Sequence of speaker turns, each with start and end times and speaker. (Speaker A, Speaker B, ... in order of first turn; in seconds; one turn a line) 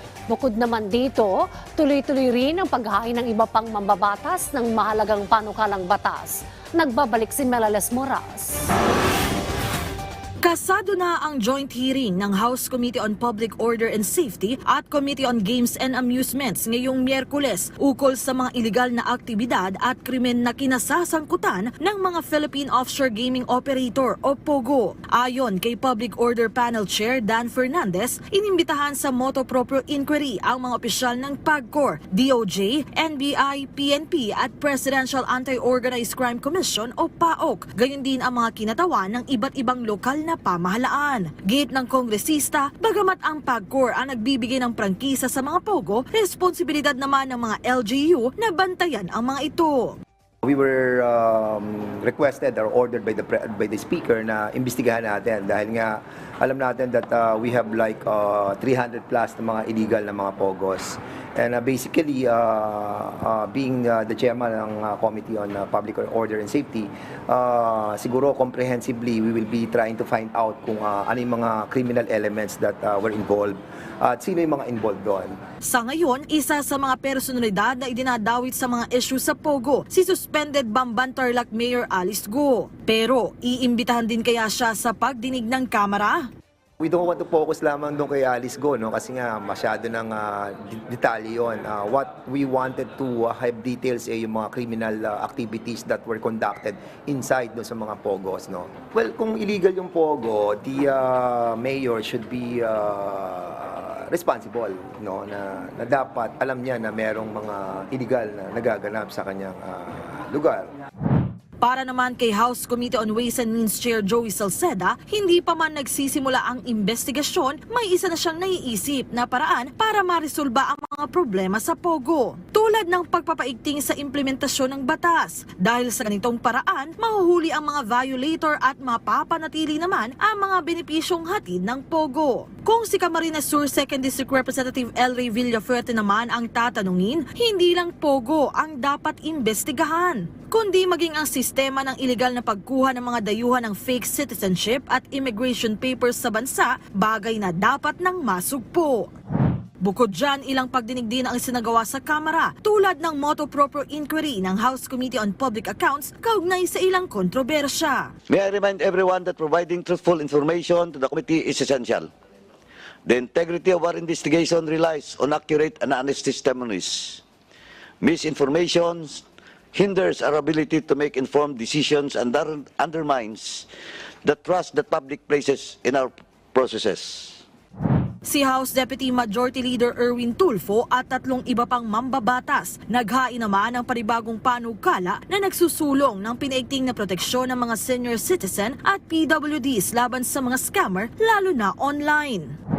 Speaker A: 0.3-8.6
Speaker B: 10.4-50.0
Speaker C: 50.4-75.3
Speaker B: 75.6-86.3
Speaker C: 86.8-110.7
Speaker B: 111.6-149.1
Speaker B: 149.8-158.1
Speaker D: 158.3-162.1
Speaker D: 163.1-167.2
Speaker D: 168.0-173.7
Speaker D: 174.2-177.4
Speaker B: 178.2-192.6